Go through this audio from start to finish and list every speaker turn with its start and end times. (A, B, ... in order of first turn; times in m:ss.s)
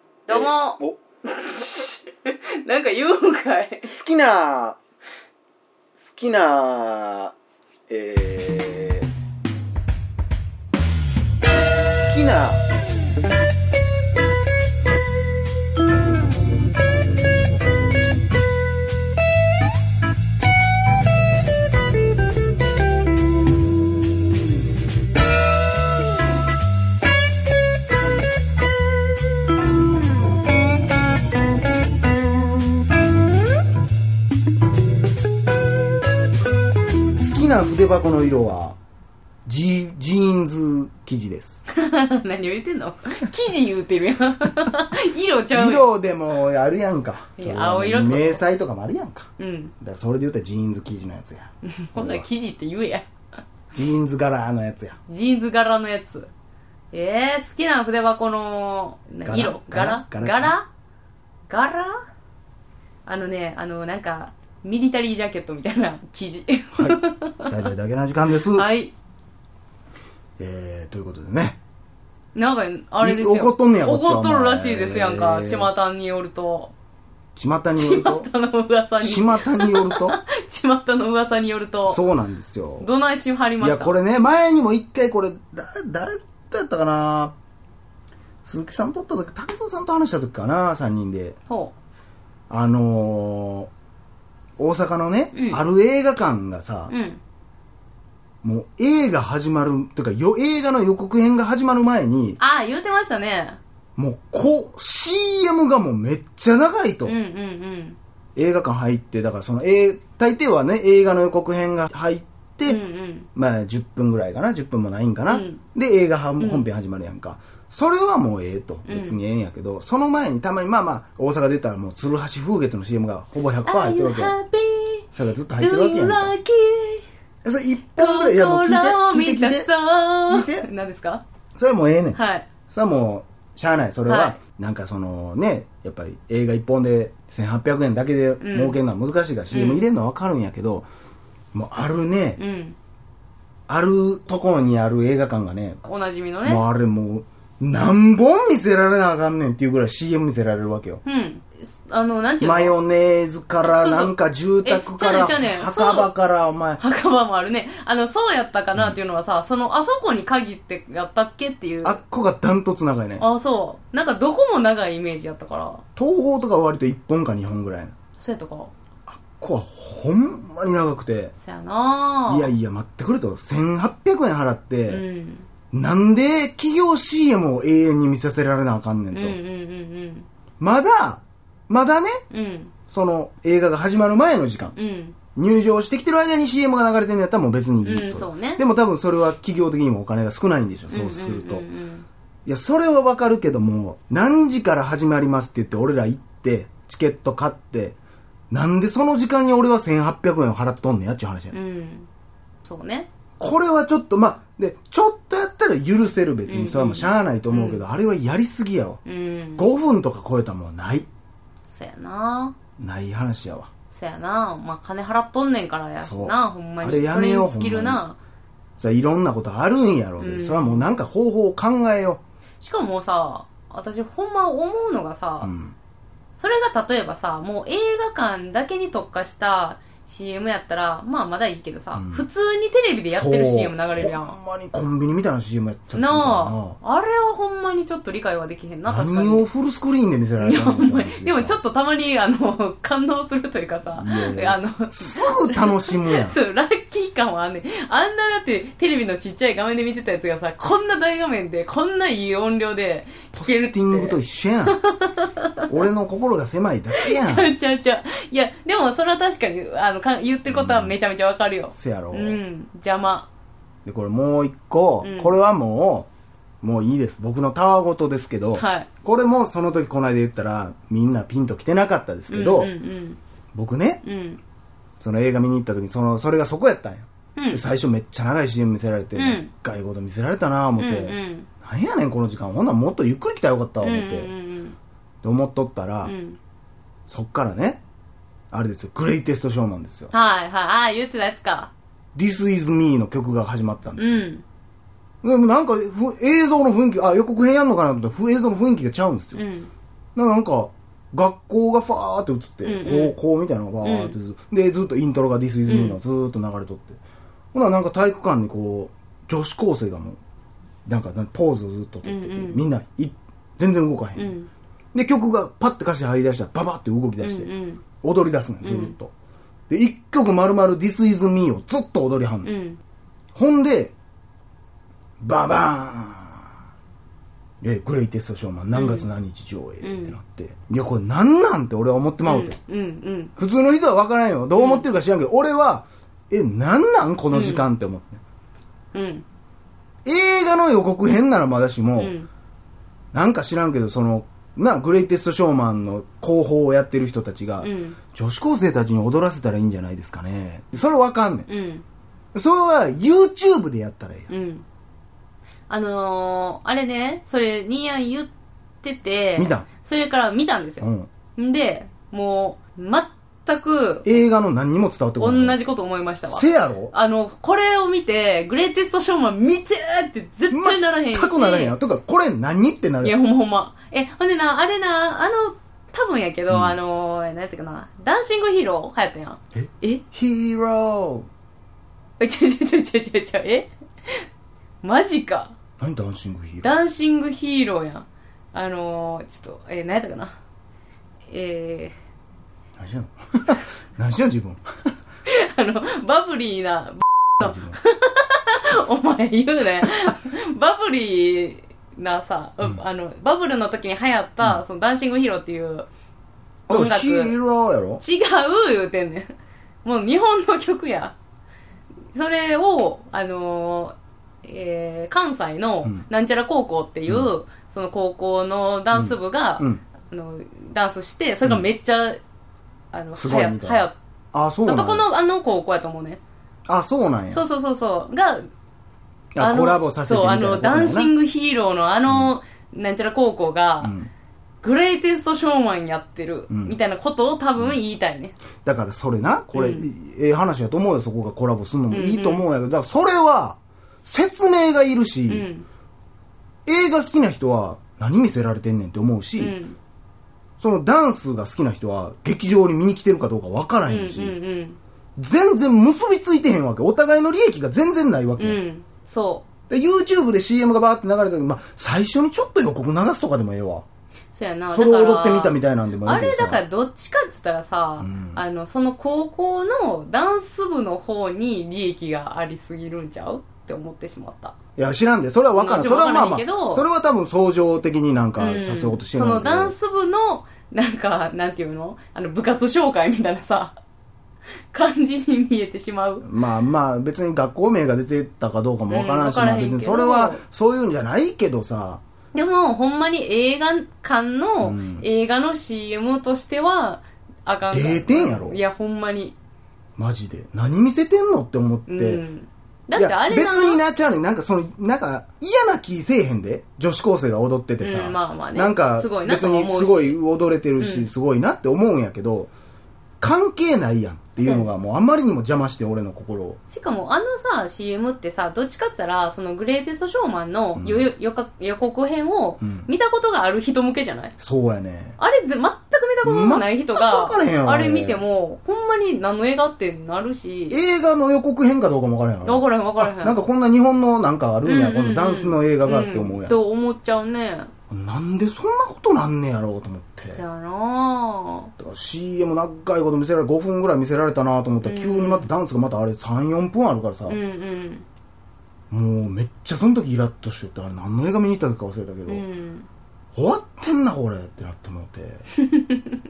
0:00.3-0:03.9 A
0:00.3-0:01.0 B
0:03.8-0:04.8 B
0:06.1-0:07.3 B
0:07.9-0:09.1 B
0:12.1-0:12.6 B
0:37.2-0:38.8 B
0:39.4-0:41.6 B
0:41.7-0:45.9 A
0:45.5-0:49.3 B
0:47.4-0:48.4 A
0:49.4-0:49.7 A
0:49.8-0:52.3 B
0:51.6-0:53.1 A
0:53.7-0:55.0 B
0:55.1-0:56.3 A
0:56.9-1:00.7 A
0:59.2-1:00.6 B
1:01.5-1:02.0 A
1:03.1-1:07.7 A
1:06.8-1:08.7 B
1:08.5-1:08.9 A
1:10.4-1:11.6 B
1:12.4-1:16.7 A
1:13.0-1:15.7 B
1:17.4-1:18.3 B
1:17.8-1:22.0 A
1:19.0-1:20.2 B
1:21.9-1:22.9 B
1:22.8-1:23.9 A
1:23.6-1:27.4 B
1:28.4-1:31.4 B
1:31.5-1:31.8 A
1:32.5-1:33.7 B
1:34.6-1:36.9 B
1:35.3-1:35.6 A
1:36.9-1:37.2 A
1:38.4-1:42.4 B
1:42.4-1:43.6 A
1:44.0-1:47.2 B
1:47.0-1:48.0 A
1:48.4-1:52.8 B
1:52.6-1:53.3 A
1:53.4-2:04.3 B
1:55.3-1:55.6 A
1:56.4-1:56.7 A
1:58.9-1:59.2 A
2:03.6-2:07.0 A
2:05.1-2:06.4 B
2:07.4-2:09.7 B
2:08.0-2:11.2 A
2:10.3-2:10.7 B
2:11.6-2:12.2 B
2:12.2-2:12.5 A
2:12.7-2:20.9 B
2:14.1-2:14.4 A
2:18.4-2:18.8 A
2:19.5-2:19.8 A
2:21.5-2:22.4 B
2:22.4-2:22.8 A
2:23.7-2:25.8 B
2:25.8-2:26.6 A
2:26.4-2:31.0 B
2:31.0-2:32.8 A
2:32.4-2:36.8 B
2:33.6-2:36.1 A
2:36.8-2:42.0 A
2:41.8-2:43.2 B
2:43.2-2:45.8 A
2:46.0-2:47.9 B
2:48.2-2:48.7 A
2:49.1-2:51.3 B
2:51.4-2:52.5 A
2:52.3-2:55.0 B
2:54.9-2:55.5 A
2:55.7-2:59.4 B
2:59.1-3:00.3 A
3:00.6-3:02.2 B
3:02.3-3:02.7 A
3:02.9-3:04.8 B
3:04.8-3:05.2 A
3:05.4-3:11.7 B
3:07.8-3:08.6 A
3:10.9-3:12.1 A
3:12.5-3:18.0 B
3:18.5-3:21.5 B
3:21.5-3:22.1 A
3:22.6-3:23.1 A
3:23.4-3:29.0 B
3:26.5-3:27.8 A
3:29.0-3:29.7 A
3:29.6-3:31.1 B
3:31.7-3:32.6 A
3:32.8-3:33.7 B
3:33.9-3:38.2 A
3:36.0-3:38.0 B
3:38.8-3:42.2 B
3:40.2-3:40.9 A
3:42.6-3:45.5 A
3:45.4-3:45.8 B
3:46.4-3:54.4 A
3:52.0-3:52.2 B
3:53.2-3:56.8 B
3:55.9-3:59.5 A
3:58.9-4:01.6 B
4:00.4-4:15.7 A
4:04.0-4:06.4 B
4:13.3-4:14.8 B
4:15.7-4:17.5 B
4:16.9-4:23.3 A
4:20.5-4:21.0 B
4:21.7-4:22.4 B
4:23.8-4:26.1 B
4:25.0-4:25.4 A
4:26.6-4:32.7 B
4:28.6-4:28.9 A
4:32.3-4:33.2 A
4:33.5-4:34.0 B
4:34.0-4:34.4 A
4:35.0-4:44.3 B
4:37.4-4:37.6 A
4:39.2-4:39.5 A
4:40.8-4:41.5 A
4:43.8-4:44.8 A
4:45.2-4:46.2 B
4:46.0-4:46.4 A
4:47.1-4:47.8 B
4:48.5-4:50.1 B
4:50.1-4:51.7 A
4:52.2-4:54.3 B
4:54.0-4:54.4 A
4:55.2-4:59.4 B
4:59.4-4:59.7 A
5:00.2-5:07.0 B
5:02.6-5:03.2 A
5:03.8-5:04.2 A
5:05.7-5:06.0 A
5:07.5-5:10.2 B
5:10.9-5:14.3 B
5:12.0-5:12.6 A
5:14.2-5:14.5 A
5:14.9-5:17.5 B
5:17.2-5:17.8 A
5:18.0-5:19.1 B
5:18.6-5:18.9 A
5:19.7-5:22.5 B
5:22.4-5:22.8 A
5:23.4-5:24.0 B
5:25.2-5:26.5 B
5:27.6-5:32.6 B
5:28.7-5:29.1 A
5:29.8-5:30.2 A
5:32.2-5:33.3 A
5:33.4-5:38.2 B
5:34.6-5:34.8 A
5:37.3-5:37.6 A
5:38.9-5:39.2 A
5:40.0-5:42.2 B
5:42.0-5:42.3 A
5:43.1-5:51.5 B
5:47.6-5:48.0 A
5:51.5-5:51.8 A
5:52.3-5:54.3 B
5:54.3-5:54.6 A
5:55.7-5:58.3 A
5:58.8-6:04.2 A
5:59.4-5:59.7 B
6:00.8-6:01.1 B
6:04.0-6:05.6 B
6:05.2-6:11.8 A
6:06.3-6:06.9 B
6:10.5-6:13.1 B
6:13.0-6:20.0 A
6:16.5-6:16.8 B
6:19.6-6:21.3 B
6:22.2-6:24.2 A
6:24.8-6:25.5 A
6:25.8-6:26.7 B
6:26.6-6:30.4 A
6:31.3-6:32.0 A
6:32.8-6:34.7 B
6:35.3-6:45.9 A
6:37.4-6:37.8 B
6:46.7-6:48.0 B
6:46.7-6:47.4 A
6:48.0-6:49.3 A
6:49.8-6:51.2 A
6:52.1-7:02.2 A
6:58.9-6:59.8 B
7:02.9-7:04.0 A
7:03.2-7:05.1 B
7:04.6-7:06.2 A
7:06.7-7:07.4 B
7:07.3-7:08.5 A
7:09.4-7:11.1 B
7:09.4-7:14.0 A
7:13.8-7:14.1 B
7:14.6-7:18.4 A
7:16.5-7:16.8 B
7:18.6-7:25.4 B
7:19.5-7:19.9 A
7:21.9-7:22.4 A
7:25.3-7:25.7 A
7:26.7-7:29.6 B
7:29.4-7:29.8 A
7:30.6-7:34.4 B
7:33.8-7:34.8 A
7:35.2-7:38.6 B
7:38.4-7:39.4 A
7:39.7-7:43.8 B
7:44.3-7:54.6 A
7:44.7-7:46.6 B
7:48.0-7:48.4 B
7:54.8-7:59.8 B
7:55.5-7:56.8 A
7:58.4-8:03.8 A
8:04.7-8:06.3 A
8:06.2-8:12.0 B
8:08.9-8:10.4 A
8:12.3-8:19.4 A
8:14.6-8:15.1 B
8:17.7-8:18.6 B
8:20.0-8:22.2 B
8:21.9-8:23.8 A
8:23.0-8:32.5 B
8:27.8-8:30.2 A
8:30.8-8:31.1 A
8:33.2-8:36.6 B
8:34.4-8:34.7 A
8:36.7-8:44.3 A
8:40.8-8:41.1 B
8:42.6-8:42.9 B
8:44.4-8:45.2 B
8:45.2-8:50.8 A
8:46.2-8:48.2 B
8:50.7-8:56.6 B
8:52.4-8:53.4 A
8:54.6-8:57.7 A
8:57.9-9:00.4 B
9:00.3-9:01.7 A
9:01.8-9:07.4 B
9:04.8-9:05.5 A
9:07.3-9:08.1 A
9:08.9-9:12.4 B
9:12.3-9:12.9 A
9:13.4-9:15.4 B
9:15.6-9:16.2 A